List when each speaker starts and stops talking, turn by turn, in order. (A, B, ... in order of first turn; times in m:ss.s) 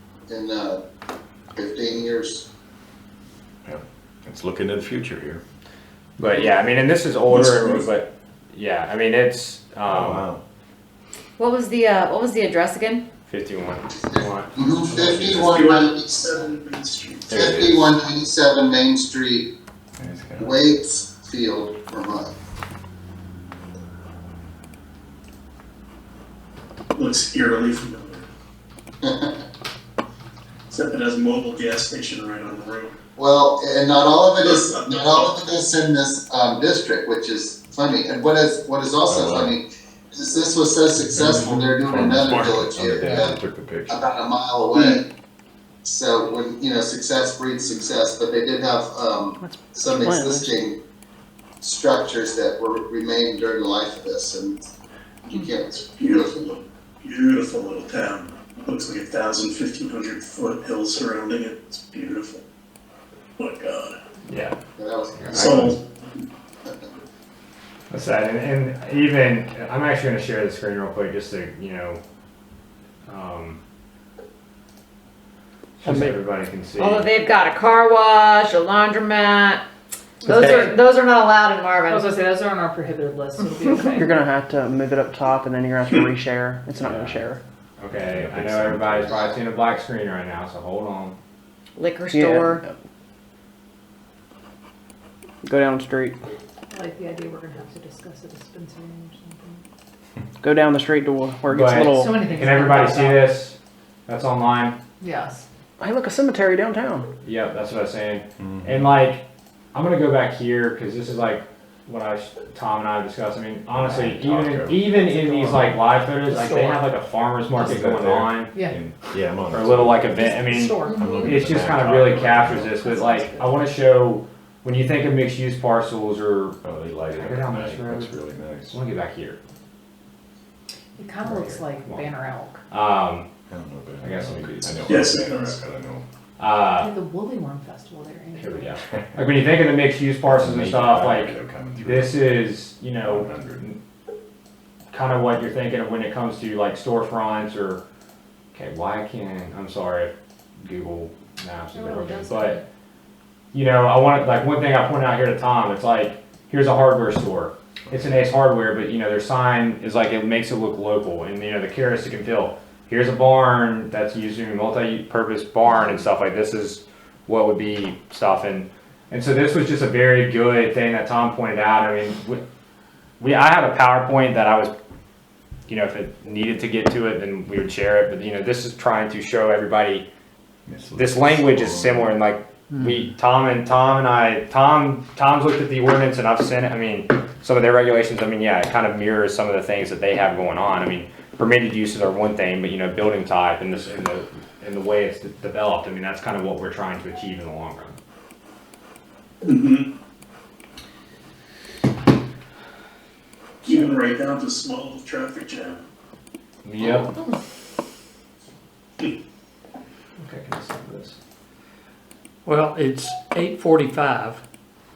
0:00.3-0:00.8 A
0:01.6-0:02.4 A
0:03.6-0:05.4 B
0:06.2-0:10.2 C
0:07.3-0:07.9 D
0:09.8-0:10.4 B
0:11.4-0:13.0 E
0:13.3-0:15.3 C
0:14.1-0:16.5 A
0:15.0-0:17.4 D
0:17.3-0:19.5 A
0:17.3-0:17.8 B
0:20.0-0:20.5 B
0:20.4-0:22.3 A
0:26.9-0:28.3 D
0:29.0-0:29.3 A
0:30.7-0:32.9 D
0:33.2-0:43.4 A
0:34.4-0:35.5 D
0:39.1-0:39.6 B
0:41.0-0:44.1 B
0:43.9-0:45.0 A
0:45.8-0:50.8 A
0:49.4-0:50.6 F
0:51.6-0:54.6 A
0:55.2-0:56.4 A
0:55.7-1:02.4 D
1:03.4-1:04.0 D
1:04.3-1:04.6 C
1:04.8-1:05.8 A
1:05.1-1:05.7 C
1:05.3-1:05.8 D
1:07.9-1:12.0 C
1:13.1-1:13.6 C
1:15.8-1:17.1 C
1:15.8-1:16.1 G
1:16.8-1:19.6 E
1:20.2-1:22.1 E
1:20.2-1:20.7 H
1:21.9-1:24.2 H
1:23.9-1:27.4 F
1:26.8-1:27.2 C
1:27.8-1:31.2 C
1:28.0-1:29.1 B
1:29.1-1:29.3 A
1:31.8-1:32.6 E
1:32.1-1:32.7 F
1:35.4-1:36.2 F
1:36.7-1:39.6 H
1:40.4-1:42.3 F
1:41.5-1:44.8 C
1:41.9-1:43.4 H
1:45.0-1:45.4 H
1:45.8-1:47.1 F
1:47.2-1:58.6 C
1:48.4-1:48.8 B
1:53.8-1:54.9 B
1:54.9-1:55.7 H
1:56.4-1:56.7 G
1:57.5-2:00.2 B
1:59.5-2:06.6 C
2:00.1-2:01.5 H
2:00.8-2:02.8 B
2:02.7-2:03.6 H
2:06.6-2:08.8 B
2:07.1-2:08.1 C
2:08.7-2:09.4 C
2:11.0-2:12.6 H
2:11.2-2:12.1 C
2:12.7-2:13.3 C
2:13.5-2:16.0 B
2:14.0-2:15.0 C
2:14.9-2:15.6 D
2:16.4-2:16.9 C
2:16.7-2:18.8 H
2:18.4-2:23.8 C
2:20.2-2:22.3 B
2:23.0-2:23.6 B
2:24.9-2:27.8 C
2:28.5-2:32.6 C
2:31.7-2:32.6 H
2:33.5-2:52.4 C
2:53.2-2:54.7 C
2:55.7-3:00.1 C
3:00.7-3:02.1 B
3:01.0-3:18.0 C
3:19.4-3:19.9 D
3:23.6-3:25.8 D
3:26.6-3:27.1 C
3:30.2-3:31.2 C
3:32.4-3:34.4 G